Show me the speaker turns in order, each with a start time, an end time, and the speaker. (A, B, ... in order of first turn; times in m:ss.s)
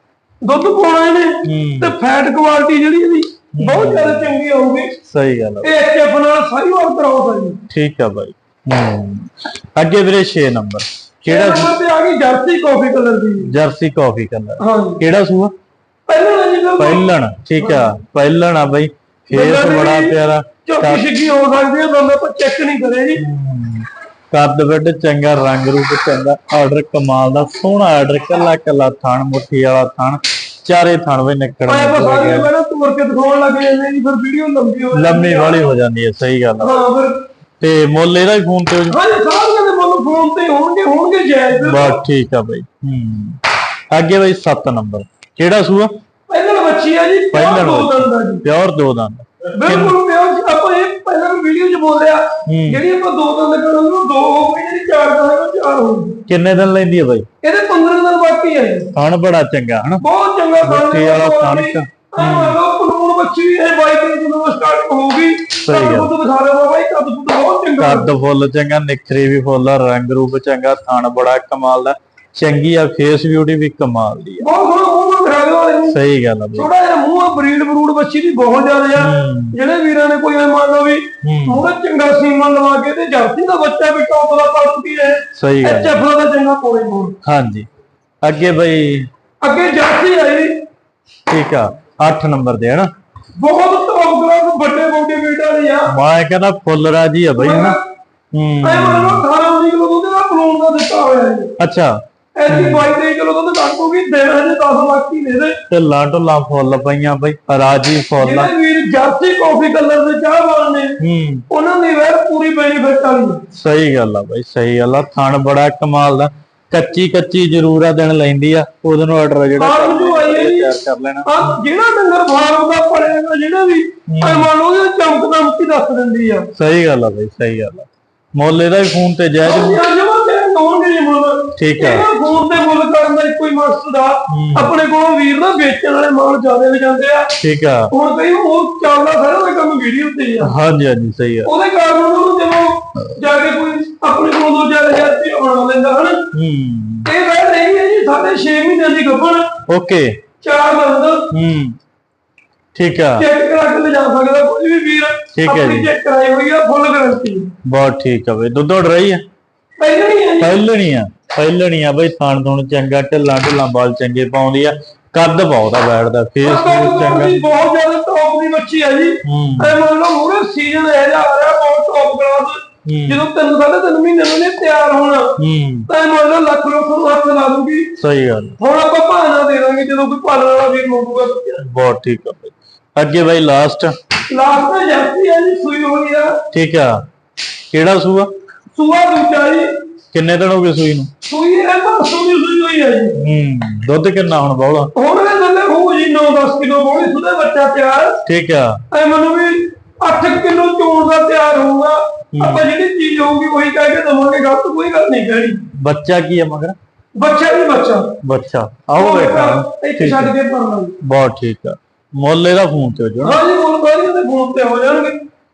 0:00.4-0:04.9 A
0:01.4-0:01.9 B
0:03.6-0:04.3 B
0:05.1-0:05.7 B
0:05.6-0:07.6 A
0:07.7-0:11.7 B
0:11.2-0:13.5 A
0:13.5-0:15.5 B
0:14.6-0:15.0 A
0:16.1-0:17.9 A
0:16.8-0:21.0 B
0:19.3-0:23.2 A
0:23.2-0:32.5 B
0:31.7-0:35.7 A
0:34.9-0:36.8 B
0:36.6-0:37.2 A
0:37.6-0:39.0 B
0:38.9-0:42.0 A
0:41.6-0:43.4 B
0:43.9-0:45.9 B
0:46.3-0:48.4 A
0:47.3-0:50.0 B
0:49.6-0:56.2 A
0:52.5-0:52.8 B
0:56.3-0:57.2 B
0:57.4-0:58.9 A
0:58.9-1:00.0 B
1:00.0-1:08.1 A
1:00.6-1:02.6 B
1:05.6-1:06.1 B
1:07.8-1:14.5 B
1:14.4-1:16.0 A
1:15.9-1:16.7 B
1:16.5-1:27.2 A
1:19.0-1:19.6 B
1:21.2-1:21.7 B
1:25.4-1:26.0 B
1:27.2-1:27.7 B
1:28.2-1:29.1 B
1:29.4-1:30.5 A
1:31.3-1:32.9 B
1:33.4-1:35.9 A
1:35.9-1:37.8 B
1:37.4-1:37.8 A
1:38.3-1:39.2 B
1:38.6-1:41.5 A
1:41.6-1:41.9 B
1:42.4-1:45.6 A
1:42.5-1:42.9 B
1:45.7-1:48.5 B
1:48.2-1:51.0 A
1:51.0-1:51.4 B
1:51.5-1:53.4 A
1:53.5-2:01.6 B
1:59.6-2:00.7 A
2:01.2-2:06.5 A
2:04.1-2:04.5 B
2:06.6-2:09.8 B
2:09.4-2:17.3 A
2:11.6-2:12.1 B
2:14.3-2:14.7 B
2:17.4-2:17.9 B
2:17.9-2:20.5 A
2:20.4-2:21.5 B
2:21.4-2:26.2 A
2:26.3-2:27.1 B
2:27.0-2:29.5 A
2:29.7-2:30.1 B
2:30.4-2:31.2 A
2:31.3-2:31.8 B
2:32.7-2:33.3 B
2:33.2-2:37.5 A
2:35.4-2:35.9 B
2:37.6-2:39.2 B
2:39.8-2:40.6 A
2:40.4-2:47.4 B
2:46.4-2:55.3 A
2:49.2-2:49.8 B
2:52.8-2:53.2 B
2:55.4-2:55.9 B
2:55.9-2:57.9 A
2:58.0-2:58.6 B
2:58.6-3:01.6 A
3:01.6-3:03.9 B
3:04.3-3:06.4 A
3:06.5-3:06.9 B
3:07.7-3:08.3 B
3:08.7-3:09.7 A
3:10.1-3:11.1 B
3:11.2-3:13.2 A
3:13.2-3:14.9 B
3:14.9-3:18.2 A
3:18.2-3:18.8 B
3:18.9-3:25.6 A
3:22.4-3:22.7 B
3:25.8-3:26.8 B
3:27.2-3:28.1 A
3:28.2-3:30.3 B
3:29.0-3:30.9 A
3:31.0-3:33.4 B
3:33.2-3:35.2 A